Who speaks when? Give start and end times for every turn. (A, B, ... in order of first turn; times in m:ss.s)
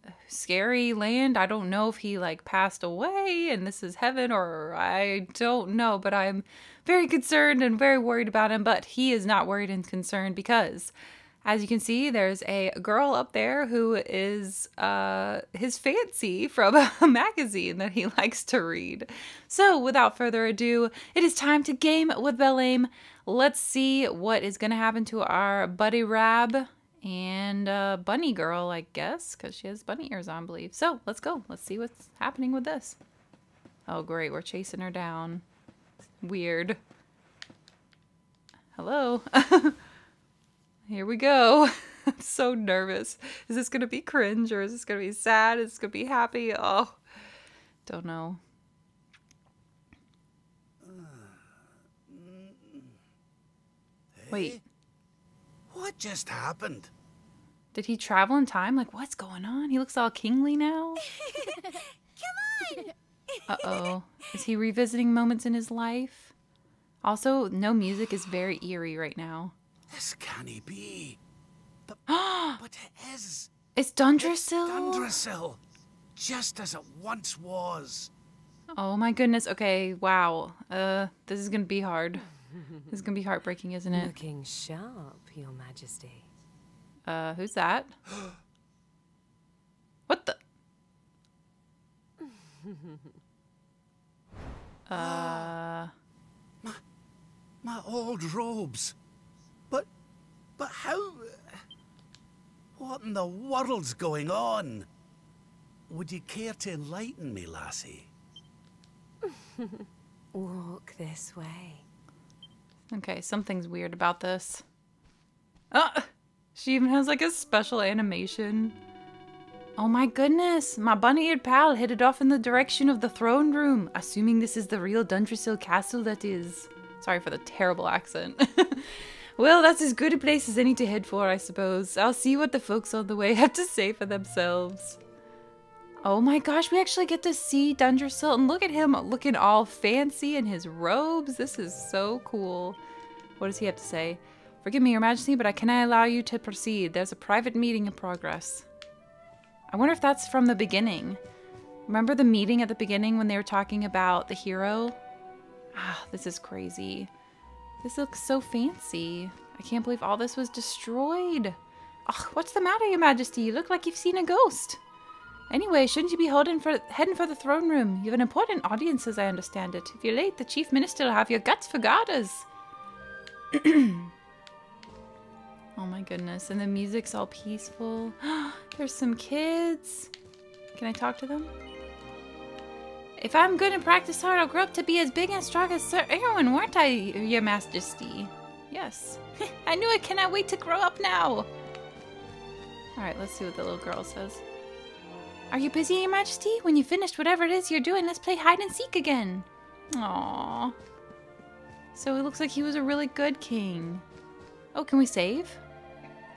0:00.3-0:10.9 A
0:11.4-0:33.0 A
0:33.9-0:35.4 A
0:36.2-0:36.8 A
0:38.8-0:39.8 A
0:40.9-0:47.0 A
0:47.9-0:48.4 A
0:50.8-0:53.0 B
0:54.2-0:54.6 B
0:54.3-0:54.6 A
0:55.7-0:56.9 B
0:57.7-1:01.0 A
1:01.2-1:01.6 C
1:03.5-1:06.3 A
1:07.0-1:09.5 A
1:09.9-1:11.2 B
1:11.9-1:13.5 B
1:12.1-1:12.6 A
1:13.8-1:15.2 A
1:14.2-1:15.6 B
1:16.2-1:18.1 B
1:18.8-1:22.3 A
1:22.9-1:24.1 A
1:23.9-1:26.3 C
1:27.1-1:27.9 A
1:30.1-1:30.4 A
1:34.9-1:35.9 A
1:34.9-1:35.6 B
1:37.6-1:39.0 B
1:40.6-1:41.6 B
1:42.8-1:44.9 B
1:45.9-1:48.1 B
1:49.6-1:51.8 C
1:52.9-1:54.6 A
1:55.7-1:58.8 A
1:59.8-2:15.0 A
2:16.0-2:22.8 A
2:23.4-2:28.7 A
2:29.7-2:31.2 A
2:31.9-2:35.0 A
2:35.7-2:37.1 A
2:37.8-2:44.8 A
2:45.5-2:52.5 A
2:53.5-2:54.1 A
2:55.8-3:00.1 A
3:00.8-3:01.5 A
3:03.2-3:11.5 A
3:13.0-3:14.4 A
3:15.5-3:20.8 A
3:22.0-3:24.0 A
3:24.7-3:25.6 A